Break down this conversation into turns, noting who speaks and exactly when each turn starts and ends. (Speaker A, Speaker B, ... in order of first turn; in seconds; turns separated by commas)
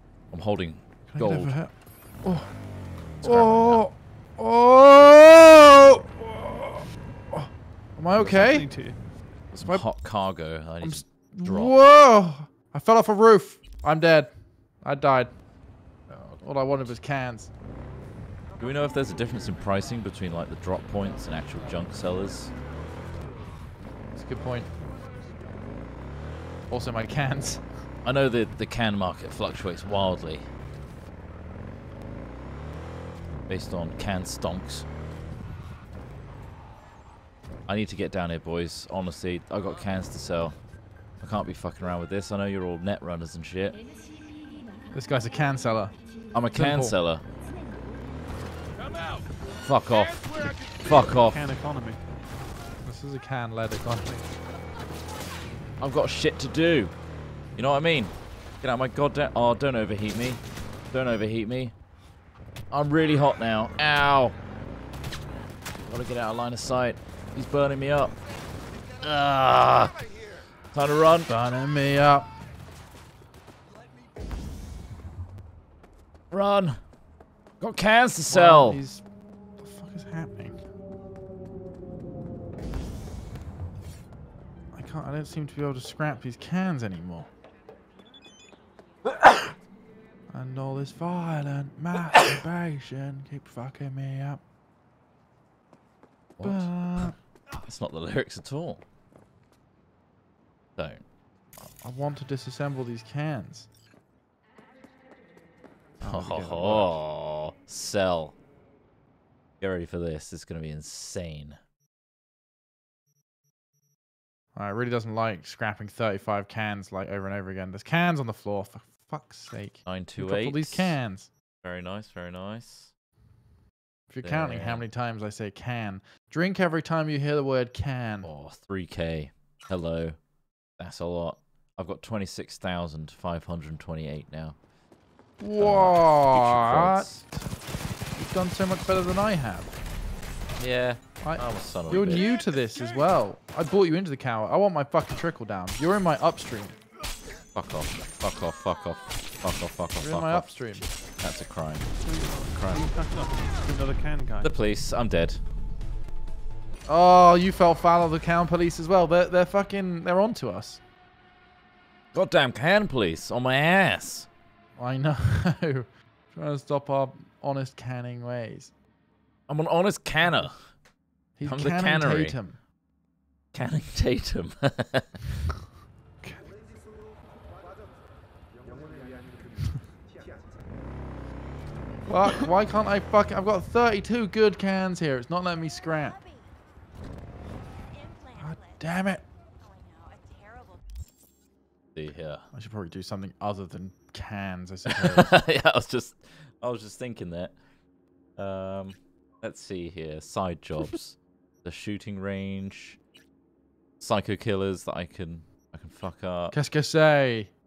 Speaker A: 0.3-1.6, Speaker B: 1.1-2.7, Speaker B: 3.2-8.9, Speaker A: 3.2-3.9, Speaker C: 8.2-9.0, Speaker A: 9.5-11.8, Speaker B: 9.6-10.1, Speaker B: 10.8-15.4, Speaker A: 16.1-16.4, Speaker B: 16.4-17.5, Speaker A: 18.6-22.6, Speaker B: 24.1-24.7, Speaker B: 26.7-27.9, Speaker A: 28.0-30.5, Speaker A: 33.5-34.9, Speaker A: 37.7-43.8, Speaker B: 44.9-47.0, Speaker A: 46.3-47.2, Speaker A: 49.6-51.5, Speaker C: 50.9-52.0, Speaker B: 52.8-54.2, Speaker A: 55.8-57.0, Speaker A: 57.5-61.8, Speaker A: 62.7-64.4, Speaker A: 65.8-68.2, Speaker A: 69.0-70.0, Speaker A: 70.7-71.3, Speaker B: 71.3-72.4, Speaker A: 76.3-76.8, Speaker A: 77.6-78.8, Speaker B: 78.3-80.6, Speaker B: 84.7-87.3, Speaker B: 90.3-94.4, Speaker A: 96.4-98.8, Speaker B: 96.4-97.2, Speaker A: 100.8-101.0, Speaker B: 101.6-103.7, Speaker B: 106.0-107.0, Speaker A: 106.0-108.4, Speaker A: 109.6-111.6, Speaker B: 114.5-121.3, Speaker A: 119.8-121.0, Speaker A: 121.6-122.9, Speaker B: 124.1-128.3, Speaker A: 124.2-124.9, Speaker A: 128.2-130.2, Speaker A: 130.8-134.6, Speaker B: 135.4-137.2, Speaker A: 135.6-137.4, Speaker B: 138.2-139.8, Speaker A: 140.6-142.3, Speaker B: 141.2-146.8, Speaker A: 147.5-152.9, Speaker B: 150.0-150.9, Speaker C: 152.0-154.5, Speaker A: 154.4-155.4, Speaker B: 156.9-160.8, Speaker A: 162.1-164.3, Speaker B: 164.8-168.7, Speaker A: 169.5-170.8, Speaker B: 171.4-172.6, Speaker A: 171.4-172.5, Speaker A: 173.5-175.2, Speaker C: 176.2-176.5, Speaker B: 182.1-186.2, Speaker B: 188.3-189.3, Speaker A: 191.9-192.5, Speaker B: 192.5-195.3, Speaker A: 194.9-197.6, Speaker A: 198.4-203.0, Speaker A: 204.0-206.6, Speaker B: 206.5-207.5